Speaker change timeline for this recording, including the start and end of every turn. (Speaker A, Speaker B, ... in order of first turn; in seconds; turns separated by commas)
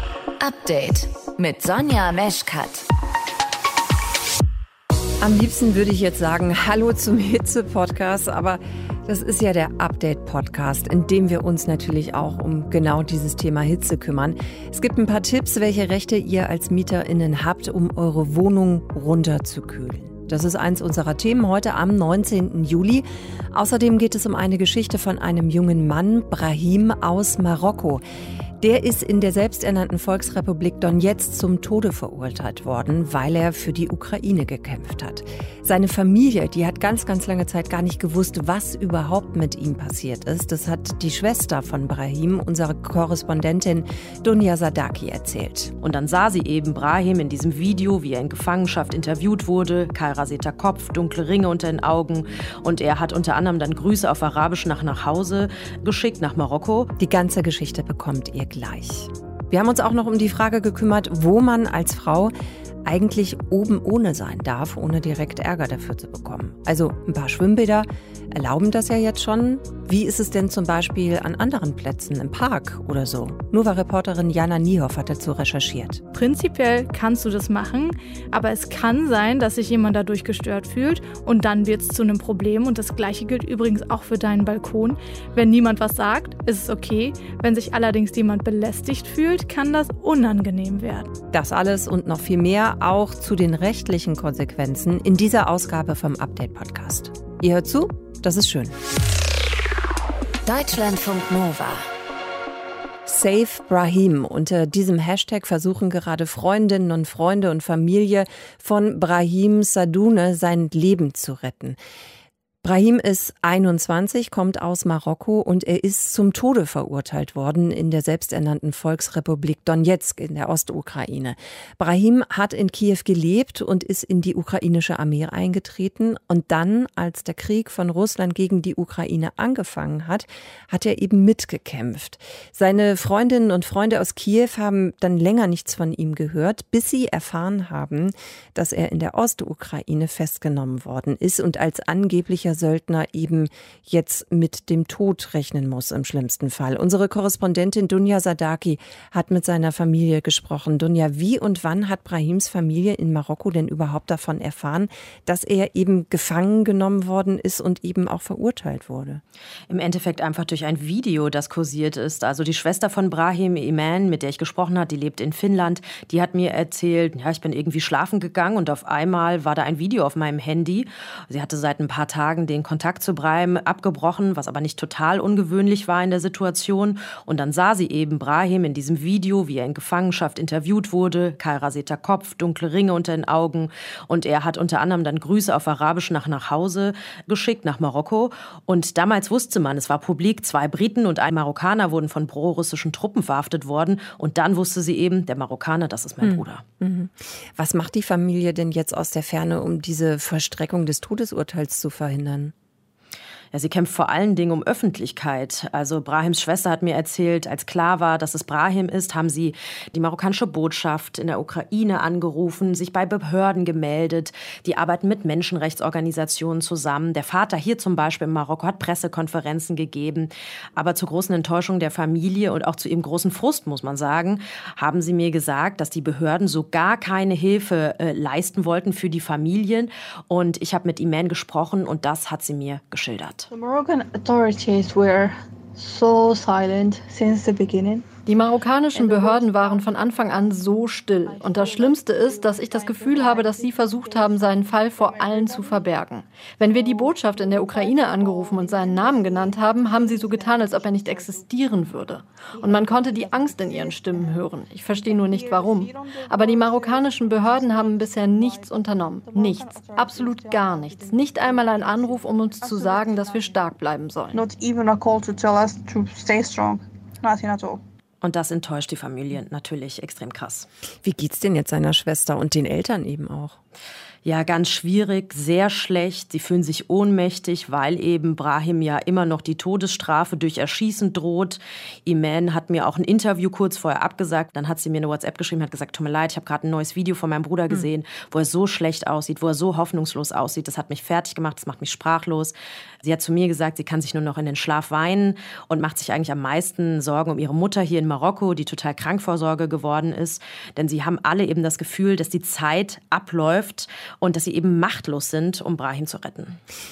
Speaker A: 0.4-2.9, Speaker B: 5.2-28.0, Speaker B: 28.6-45.7, Speaker C: 45.8-56.9, Speaker B: 57.0-62.3, Speaker B: 62.8-76.0, Speaker D: 76.1-91.1, Speaker B: 91.3-98.8, Speaker A: 100.5-101.9, Speaker B: 103.1-111.8, Speaker B: 112.6-159.2, Speaker C: 159.7-196.6, Speaker B: 196.2-202.5, Speaker C: 203.5-233.5, Speaker E: 233.5-238.1, Speaker F: 238.2-264.4, Speaker E: 238.9-240.6, Speaker E: 241.2-246.0, Speaker E: 246.6-252.0, Speaker E: 252.5-263.7, Speaker E: 264.3-267.8, Speaker C: 268.2-270.7, Speaker B: 271.0-273.6, Speaker C: 274.2-306.6